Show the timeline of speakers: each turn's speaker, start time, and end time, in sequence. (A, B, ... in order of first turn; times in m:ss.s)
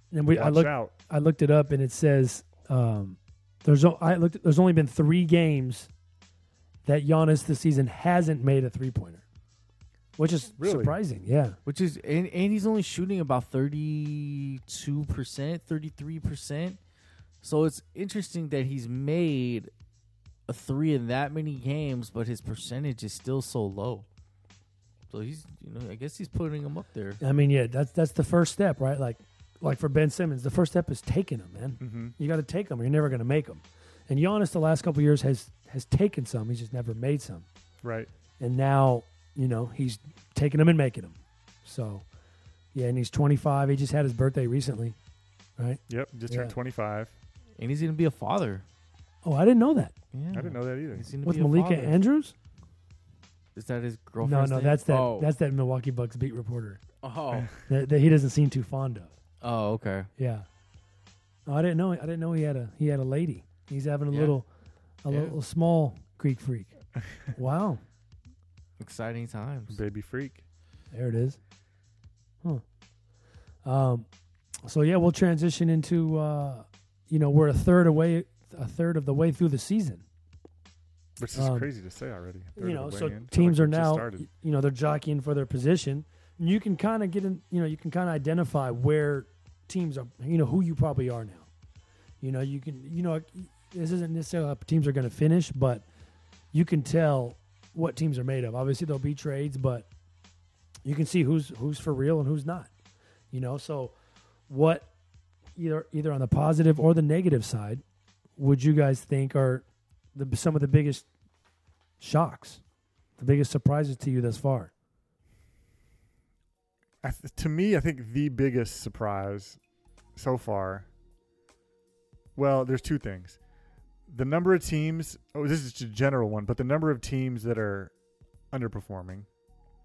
0:00.1-0:05.9 A
0:00.3-0:00.9 B
0:06.8-0:09.2 A
0:10.2-0:11.6 A
0:10.6-0:11.0 B
0:11.6-0:16.8 C
0:17.4-0:19.7 C
0:20.5-0:24.0 C
0:25.1-0:27.2 C
0:27.2-0:37.4 A
0:31.8-0:32.1 B
0:37.8-0:38.1 B
0:38.4-0:42.0 A
0:42.7-0:45.0 A
0:45.6-0:46.5 A
0:45.9-0:47.1 B
0:47.6-0:48.6 C
0:49.2-0:49.9 A
0:50.1-0:52.0 C
0:50.3-0:51.1 B
0:51.2-0:52.3 A
0:53.5-0:55.3 C
0:54.2-0:56.8 A
0:57.0-0:57.5 C
0:57.6-0:59.1 A
0:59.4-1:00.1 C
1:00.2-1:00.4 A
1:01.4-1:04.5 A
1:04.1-1:04.4 C
1:05.0-1:06.7 A
1:05.1-1:05.3 C
1:07.3-1:07.8 A
1:08.8-1:09.8 C
1:09.7-1:10.4 B
1:10.9-1:11.4 A
1:13.6-1:14.1 A
1:14.6-1:20.0 A
1:21.2-1:24.3 B
1:21.3-1:21.7 A
1:22.6-1:31.5 A
1:32.2-1:35.8 A
1:36.5-1:39.9 A
1:40.8-1:42.7 A
1:43.3-1:43.9 A
1:44.5-1:44.9 A
1:45.6-1:47.8 A
1:48.4-1:51.0 A
1:52.0-1:52.6 A
1:53.2-1:54.7 A
1:57.0-1:59.6 B
2:00.2-2:00.9 B
2:02.3-2:03.4 B
2:04.1-2:07.9 B
2:08.5-2:09.3 B